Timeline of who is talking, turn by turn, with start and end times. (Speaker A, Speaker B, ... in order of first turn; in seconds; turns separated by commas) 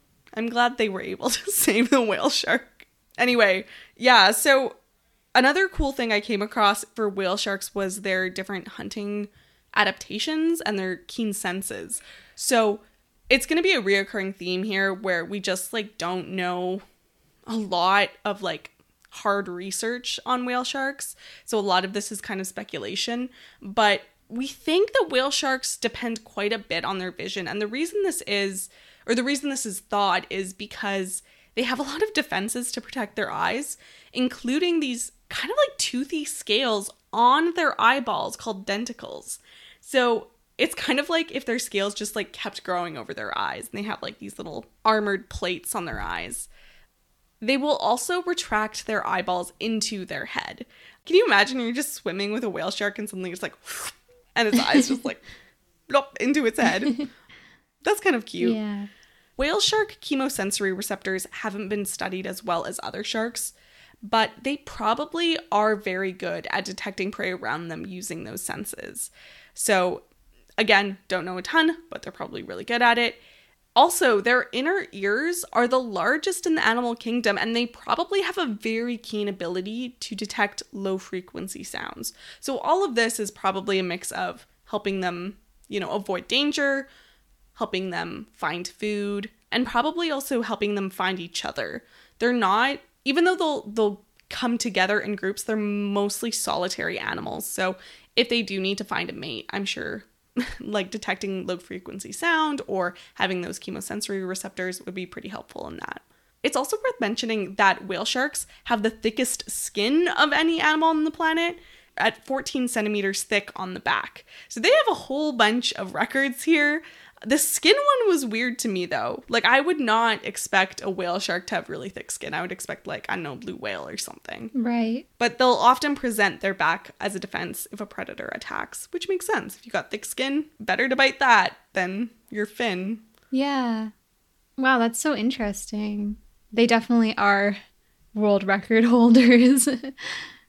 Speaker A: 0.3-4.8, Speaker A: 5.3-16.8, Speaker A: 17.5-46.5, Speaker A: 47.4-55.2, Speaker A: 55.9-57.0, Speaker A: 57.8-58.6, Speaker B: 58.4-58.9, Speaker A: 59.4-70.0, Speaker A: 70.6-73.2, Speaker A: 73.8-86.9, Speaker A: 87.6-124.5, Speaker B: 124.5-125.1, Speaker A: 125.2-133.0, Speaker B: 133.3-133.9, Speaker B: 134.6-137.6, Speaker B: 138.2-140.2